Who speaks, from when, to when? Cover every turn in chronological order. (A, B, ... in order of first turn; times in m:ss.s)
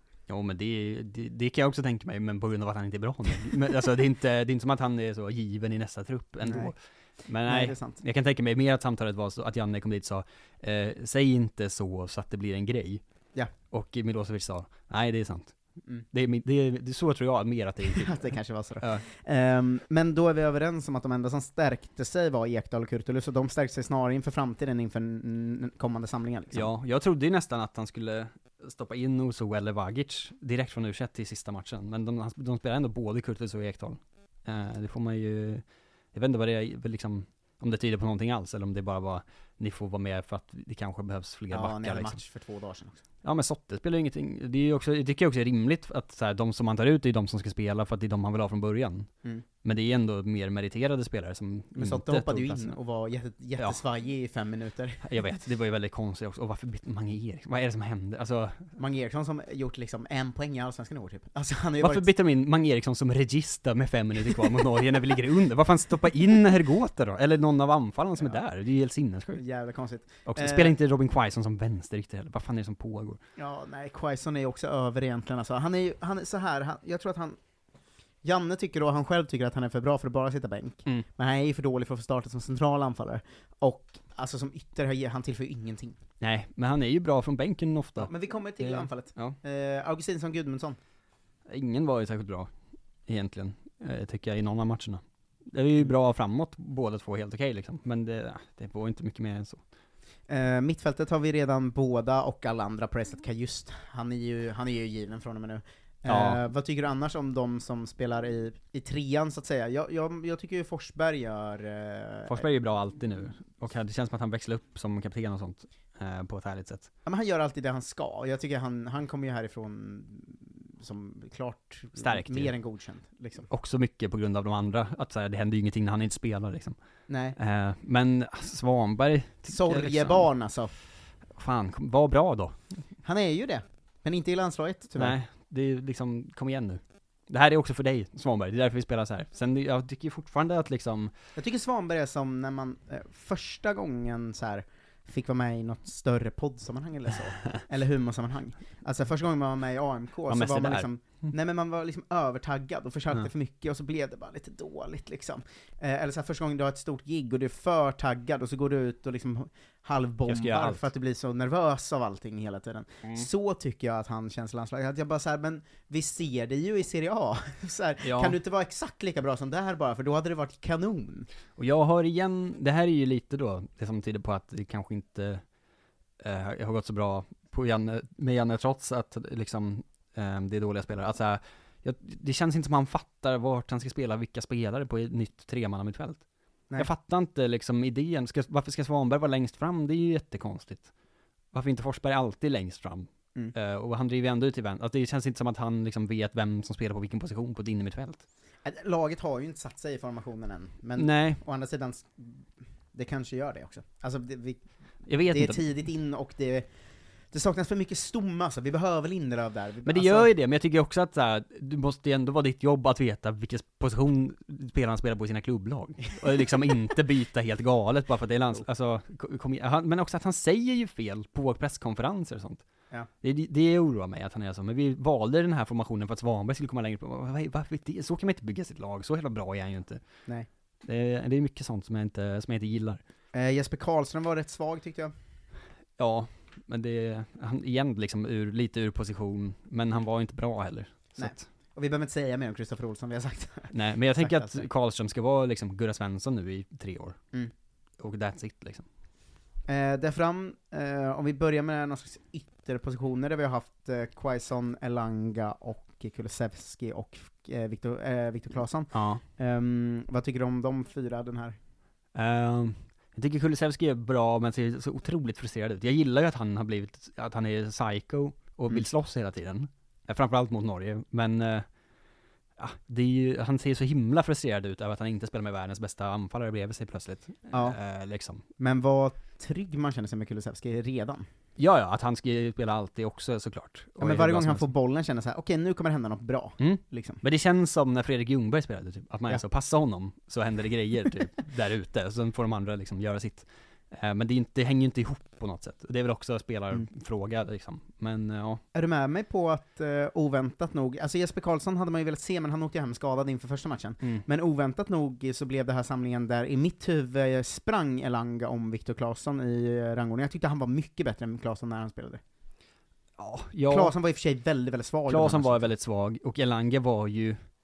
0:00.3-0:13.0 A
0:06.4-0:06.7 B
0:07.4-0:08.0 B
0:13.7-0:15.6 A
0:16.1-0:19.0 A
0:17.9-0:26.7 B
0:26.5-0:42.2 A
0:41.5-0:43.0 B
0:43.2-0:49.1 A
0:49.6-0:52.8 A
0:51.8-0:55.0 B
0:55.0-0:58.7 A
0:58.8-1:02.1 B
1:01.8-1:09.4 A
1:09.4-1:10.8 B
1:10.3-1:13.2 A
1:13.4-1:17.4 B
1:18.2-1:26.0 B
1:26.2-1:29.4 A
1:28.0-1:30.8 B
1:31.5-1:32.5 A
1:33.1-1:39.6 A
1:40.3-1:52.5 B
1:46.1-1:46.4 A
1:52.3-1:56.9 A
1:57.0-2:03.5 B
2:02.0-2:02.5 A
2:03.5-2:06.8 A
2:07.1-2:07.4 B
2:07.4-2:10.3 A
2:09.5-2:10.7 B
2:11.4-2:12.6 A
2:13.0-2:15.2 B
2:15.0-2:21.1 A
2:21.4-2:51.3 B
2:30.3-2:30.9 A
2:40.3-2:40.9 A
2:48.0-2:48.4 A
2:51.6-2:55.4 A
2:56.2-3:06.2 A
3:06.8-3:10.9 A
3:11.5-3:18.2 A
3:18.6-3:24.6 B
3:21.0-3:21.4 A
3:25.1-3:25.6 A
3:25.3-3:26.7 B
3:27.3-3:30.3 B
3:29.8-3:42.6 A
3:43.2-3:50.0 A
3:50.8-3:53.0 A
3:53.3-3:55.1 B
3:56.0-4:01.5 A
4:01.2-4:04.6 B
4:03.7-4:07.2 A
4:08.0-4:08.9 A
4:09.7-4:21.6 B
4:18.9-4:19.2 A
4:22.2-4:31.7 A
4:32.6-4:38.4 A
4:37.5-4:37.8 B
4:38.6-4:41.3 B
4:41.6-4:44.7 A
4:44.0-4:47.2 B
4:46.6-4:58.6 A
4:58.7-5:12.2 B
5:13.2-5:14.0 A
5:13.7-5:15.7 B
5:15.1-5:17.4 A